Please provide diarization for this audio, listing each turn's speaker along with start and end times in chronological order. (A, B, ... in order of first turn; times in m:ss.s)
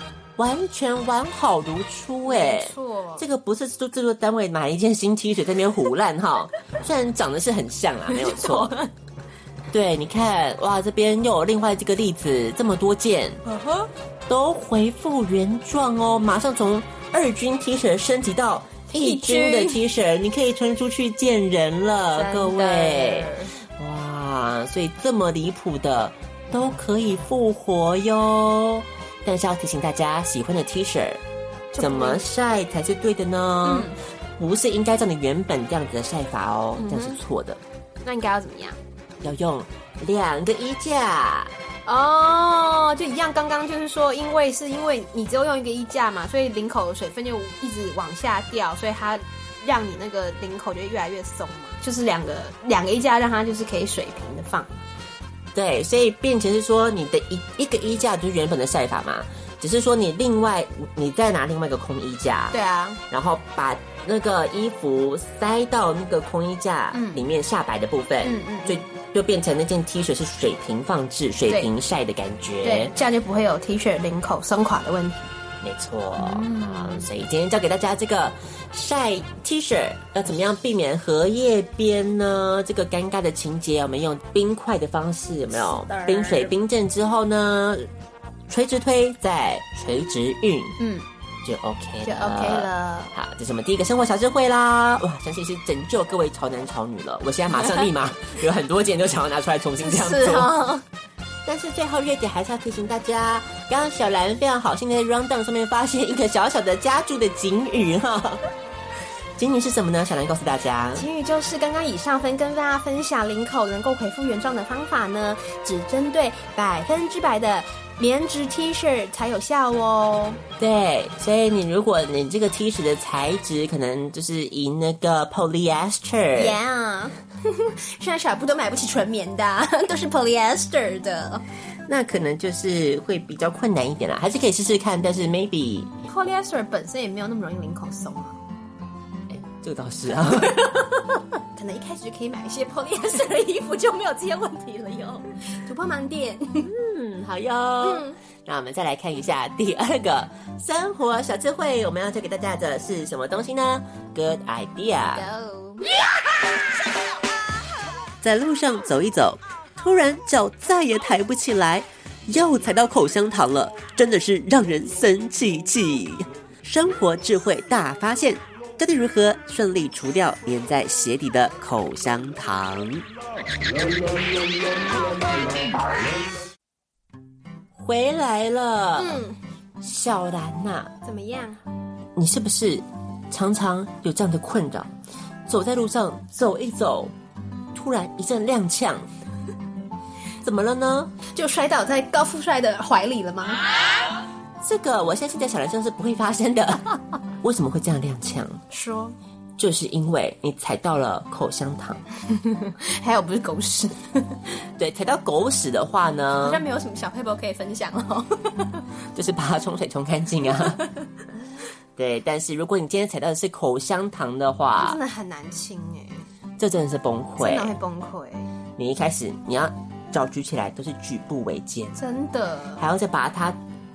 0:00.4-0:08.7 A
0:02.2-0:03.2 B
0:08.1-0:08.9 B
0:09.7-0:13.4 A
0:13.4-0:13.9 B
0:14.3-0:31.2 A
0:18.9-0:19.8 B
0:22.2-0:23.5 B
0:31.7-0:32.2 B
0:31.8-0:37.6 A
0:33.6-0:34.0 B
0:36.8-0:37.2 B
0:38.0-0:38.8 B
0:39.2-0:41.5 A
0:41.9-0:54.8 B
0:55.5-1:02.6 A
1:02.5-1:03.0 B
1:03.1-1:12.9 A
1:06.9-1:07.2 B
1:08.2-1:08.8 B
1:12.6-1:15.3 B
1:15.6-1:27.9 A
1:16.2-1:17.1 B
1:25.5-1:26.5 B
1:28.5-1:30.8 A
1:30.8-1:31.1 B
1:31.4-1:40.5 A
1:32.0-1:33.1 B
1:39.8-1:40.8 B
1:41.4-1:48.4 A
1:49.4-1:51.1 A
1:51.0-2:00.4 B
2:00.6-2:06.6 A
2:06.4-2:11.4 B
2:11.9-2:15.9 A
2:16.1-2:18.4 B
2:19.3-2:20.6 A
2:20.3-2:26.7 B
2:26.6-2:35.2 A
2:27.8-2:28.2 B
2:35.1-2:35.9 B
2:38.2-2:53.0 A
2:57.8-2:59.2 A
2:59.0-2:59.4 B
2:59.8-3:00.9 A
3:01.0-3:01.6 B
3:02.2-3:04.9 A
3:05.5-3:07.1 A
3:07.7-3:09.1 A
3:10.4-3:11.1 A
3:11.3-3:13.6 B
3:14.6-3:18.6 A
3:18.7-3:19.2 B
3:19.6-3:22.0 A
3:22.3-3:24.4 B
3:24.8-3:26.6 A
3:26.4-3:28.8 B
3:29.2-3:30.8 A
3:32.0-3:35.0 A
3:34.8-3:36.3 B
3:36.6-3:37.7 A
3:37.4-3:38.5 B
3:38.8-3:42.0 A
3:42.0-3:42.8 B
3:42.8-3:43.6 A